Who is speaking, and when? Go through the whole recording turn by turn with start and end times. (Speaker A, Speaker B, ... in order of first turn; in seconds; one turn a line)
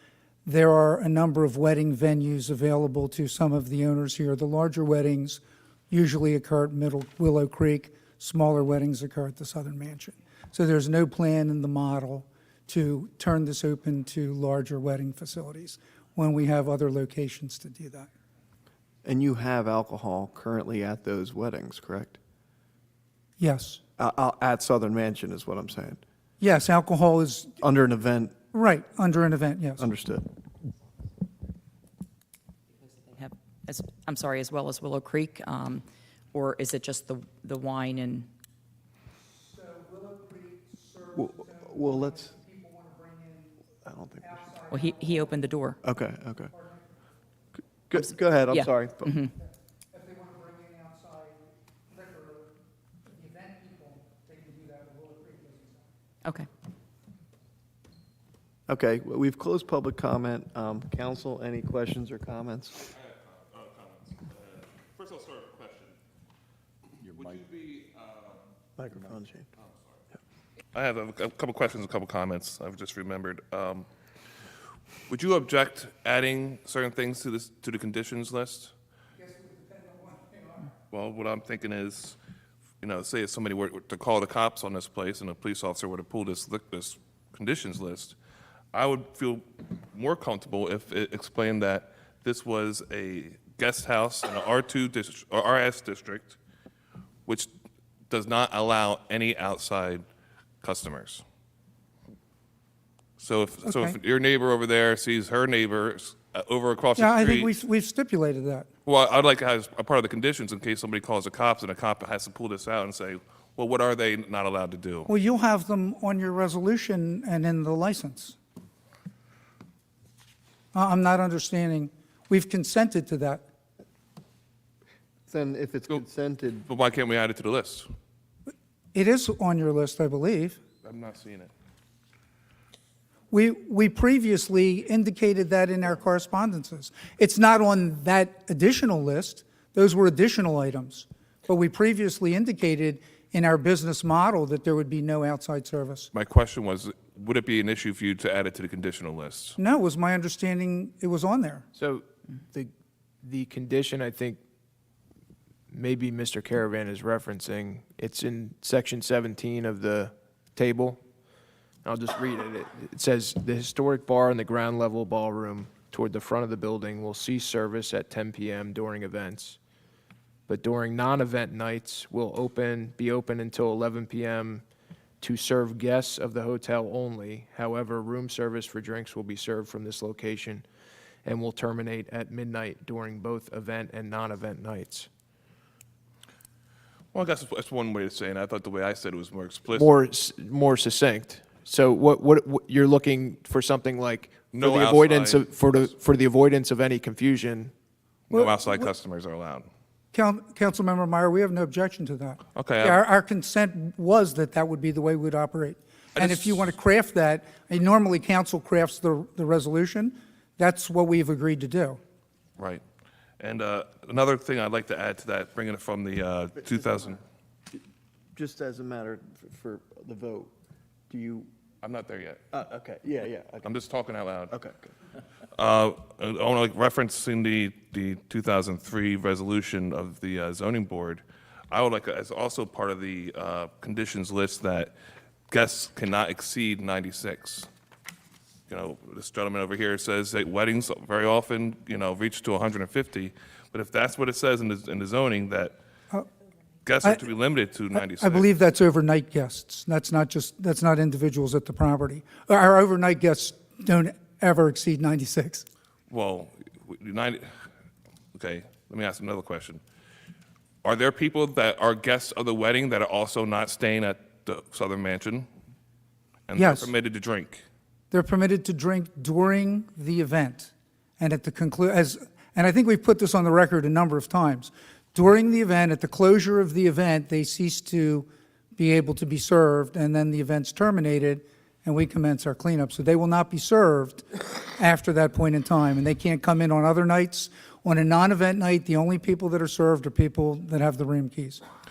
Speaker A: 0.5-18.1
Speaker B: 19.0-22.2
Speaker A: 23.4-23.8
Speaker B: 24.0-26.0
Speaker A: 26.4-27.6
Speaker B: 27.6-28.4
Speaker A: 28.5-29.9
Speaker B: 29.8-30.2
Speaker C: 32.8-38.3
Speaker A: 39.2-43.5
Speaker B: 41.2-42.3
Speaker B: 43.9-44.6
Speaker A: 44.4-45.1
Speaker C: 44.7-45.8
Speaker B: 45.8-46.5
Speaker B: 47.9-49.2
Speaker C: 48.0-49.3
Speaker A: 49.9-52.5
Speaker A: 53.1-55.9
Speaker C: 56.2-56.5
Speaker B: 58.7-62.8
Speaker D: 62.8-66.0
Speaker D: 67.0-68.4
Speaker B: 68.8-69.5
Speaker D: 69.5-70.0
Speaker D: 70.7-73.9
Speaker D: 75.1-78.7
Speaker A: 79.2-80.7
Speaker D: 80.9-82.2
Speaker D: 82.8-88.2
Speaker D: 88.7-96.4
Speaker D: 98.1-100.0
Speaker D: 100.6-101.2
Speaker D: 103.2-107.5
Speaker A: 103.7-104.0
Speaker A: 107.0-108.7
Speaker D: 108.9-115.1
Speaker A: 115.1-118.4
Speaker A: 120.7-123.4
Speaker B: 125.3-126.7
Speaker D: 126.7-127.9
Speaker A: 128.9-130.6
Speaker D: 130.8-131.5
Speaker A: 133.3-146.1
Speaker D: 146.1-149.6
Speaker A: 149.6-151.7
Speaker E: 151.7-152.7
Speaker E: 153.2-154.4
Speaker E: 155.7-161.0
Speaker E: 161.8-169.6
Speaker E: 170.5-174.6
Speaker E: 175.2-180.7
Speaker E: 181.2-185.1
Speaker D: 187.1-189.9
Speaker E: 189.7-197.7
Speaker D: 194.5-195.8
Speaker D: 198.3-199.7
Speaker A: 198.3-198.7
Speaker A: 200.1-212.0
Speaker D: 202.6-203.0
Speaker D: 206.2-206.8
Speaker D: 212.6-212.8
Speaker D: 213.4-217.2
Speaker B: 218.3-220.5
Speaker B: 221.1-221.5
Speaker D: 221.8-222.4
Speaker B: 222.5-223.7
Speaker D: 223.6-224.5
Speaker B: 224.5-224.9
Speaker D: 225.6-234.9
Speaker D: 235.5-237.7
Speaker D: 238.7-245.8
Speaker D: 246.8-248.5
Speaker A: 247.9-255.7
Speaker D: 256.1-257.5
Speaker D: 258.4-259.8
Speaker D: 260.8-265.5
Speaker D: 266.5-267.6
Speaker A: 266.6-266.9
Speaker A: 268.1-291.6